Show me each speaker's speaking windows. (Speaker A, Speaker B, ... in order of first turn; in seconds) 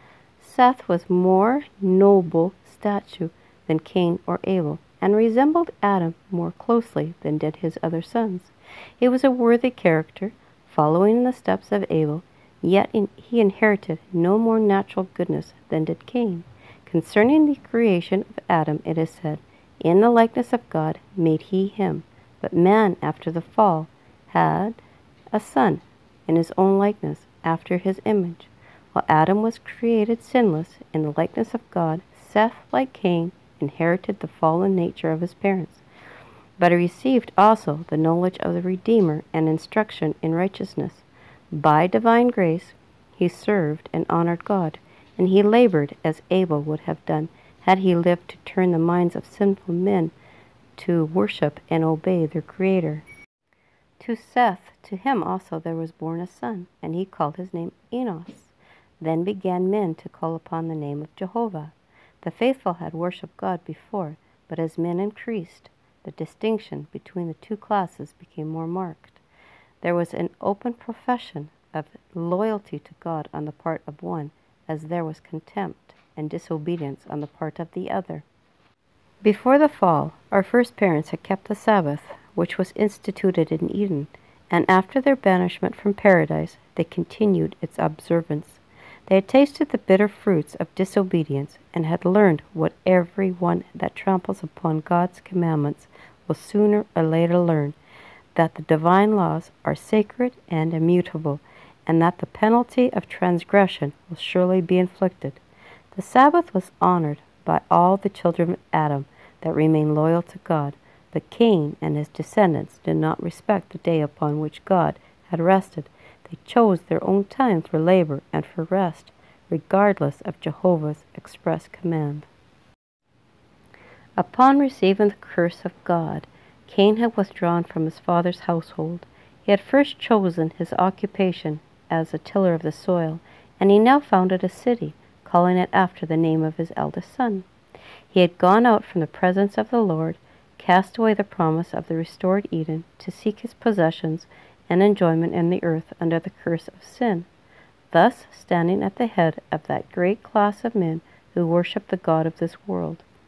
Speaker A: 0.4-24.8, 25.3-35.8, 36.6-50.1, 50.8-53.1, 54.0-69.2, 69.8-78.3, 79.2-97.8, 98.3-105.4, 105.9-122.3, 124.2-137.5, 138.1-147.3, 147.9-153.1